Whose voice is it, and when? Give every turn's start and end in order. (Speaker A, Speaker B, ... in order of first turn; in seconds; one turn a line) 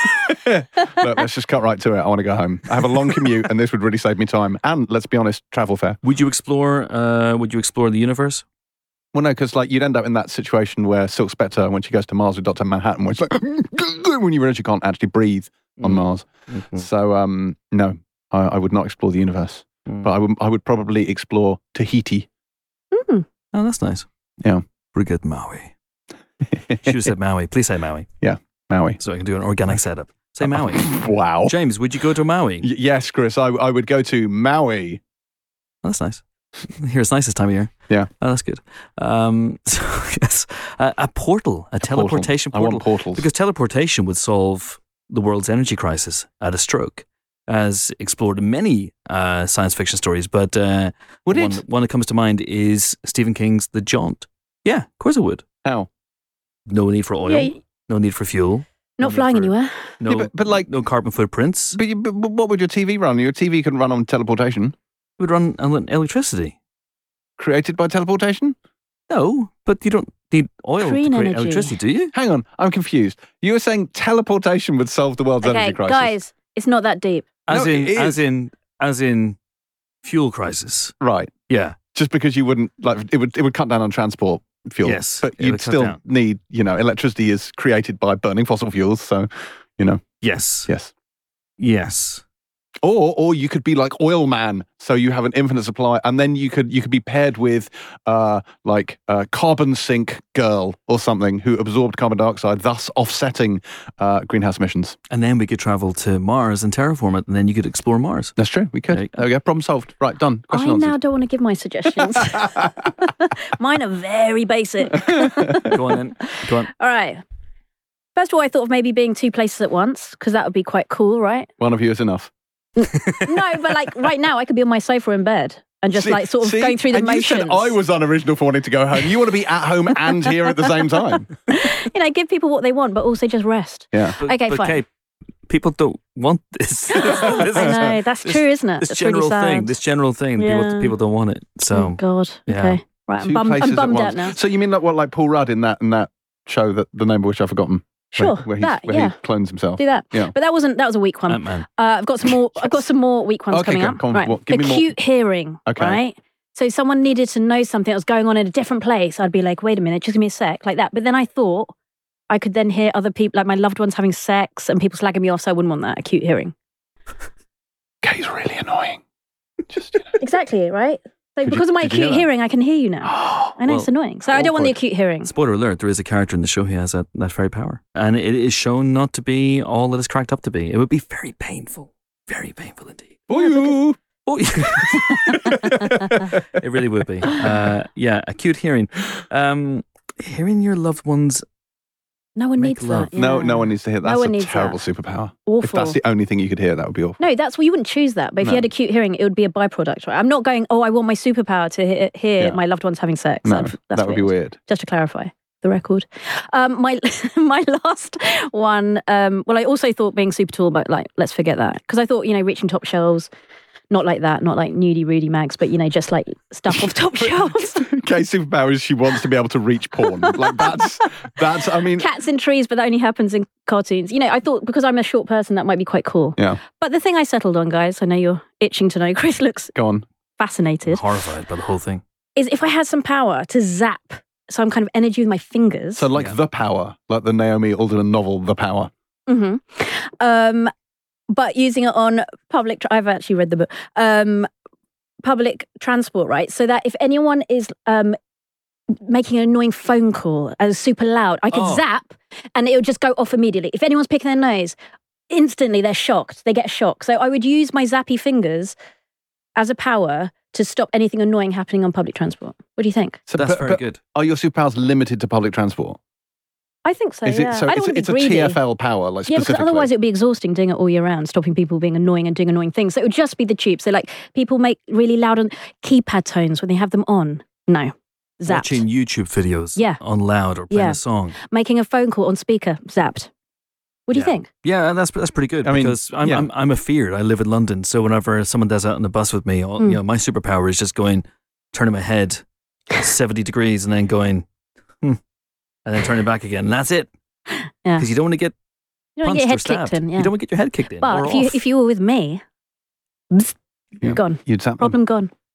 Speaker A: 0.4-6.0
Speaker B: 6.0-8.4
Speaker A: 9.1-22.3
Speaker B: 15.8-16.9
Speaker C: 22.9-23.2
Speaker B: 23.5-24.1
Speaker B: 24.9-25.7
Speaker A: 26.7-27.0
Speaker B: 26.8-28.1
Speaker A: 28.2-29.0
Speaker B: 29.0-32.7
Speaker A: 30.4-31.5
Speaker A: 32.6-35.0
Speaker B: 35.8-55.4
Speaker A: 41.8-43.3
Speaker A: 51.3-51.6
Speaker A: 55.6-55.9
Speaker B: 56.7-61.8
Speaker C: 57.2-57.5
Speaker C: 59.0-59.8
Speaker A: 60.1-60.7
Speaker A: 61.7-64.7
Speaker B: 65.2-66.5
Speaker A: 67.4-68.5
Speaker B: 69.1-72.1
Speaker C: 70.8-71.7
Speaker A: 72.1-76.1
Speaker C: 75.4-77.4
Speaker B: 77.5-79.4
Speaker A: 77.5-78.2
Speaker B: 80.0-80.9
Speaker A: 81.0-81.3
Speaker B: 81.5-81.8
Speaker A: 81.9-90.0
Speaker B: 84.8-86.0
Speaker B: 90.2-90.7
Speaker A: 90.7-90.9
Speaker B: 91.6-92.2
Speaker A: 92.8-105.0
Speaker B: 105.1-108.3
Speaker A: 108.4-111.0
Speaker C: 110.5-115.7
Speaker A: 112.2-112.7
Speaker A: 115.2-115.6
Speaker B: 115.6-116.7
Speaker C: 116.8-117.2
Speaker C: 118.2-121.5
Speaker A: 121.6-122.3
Speaker C: 122.8-127.7
Speaker A: 125.9-131.3
Speaker C: 131.5-134.8
Speaker B: 134.2-134.8
Speaker B: 135.5-142.8
Speaker C: 136.9-139.7
Speaker C: 140.4-140.9
Speaker C: 141.7-144.4
Speaker A: 143.2-150.3
Speaker C: 148.1-149.1
Speaker C: 149.8-161.7
Speaker B: 151.3-151.7
Speaker A: 153.5-154.9
Speaker A: 155.7-156.0
Speaker C: 162.3-166.5
Speaker A: 168.0-169.0
Speaker A: 169.7-170.1
Speaker C: 170.2-175.3
Speaker A: 171.4-172.2
Speaker A: 173.0-173.5
Speaker A: 174.3-174.7
Speaker B: 175.2-183.2
Speaker A: 183.3-184.0
Speaker B: 184.2-191.4
Speaker A: 185.5-186.2
Speaker C: 192.3-194.8
Speaker B: 192.6-193.1
Speaker A: 193.2-197.2
Speaker C: 195.4-196.0
Speaker C: 197.2-213.3
Speaker A: 203.4-204.6
Speaker C: 213.9-217.8
Speaker A: 216.7-222.1
Speaker C: 221.9-229.7
Speaker A: 229.7-230.1
Speaker C: 230.4-231.0
Speaker B: 230.9-232.0
Speaker C: 232.4-236.1
Speaker A: 235.9-238.9
Speaker C: 239.3-240.7
Speaker C: 241.3-244.5
Speaker C: 245.2-248.2
Speaker C: 249.1-254.8
Speaker B: 251.5-251.8
Speaker C: 255.3-258.7
Speaker C: 259.6-263.2
Speaker A: 263.3-266.0
Speaker B: 263.4-264.0
Speaker C: 266.8-268.6
Speaker A: 267.2-269.9
Speaker C: 269.3-278.8
Speaker B: 278.5-281.4
Speaker C: 280.7-283.3
Speaker C: 284.1-284.5
Speaker B: 284.1-292.4
Speaker A: 285.6-286.5
Speaker B: 292.9-294.4
Speaker B: 295.8-297.1
Speaker B: 298.0-298.5
Speaker C: 299.2-300.3
Speaker B: 299.2-301.6
Speaker C: 301.0-302.4
Speaker C: 303.3-305.3
Speaker A: 304.0-305.0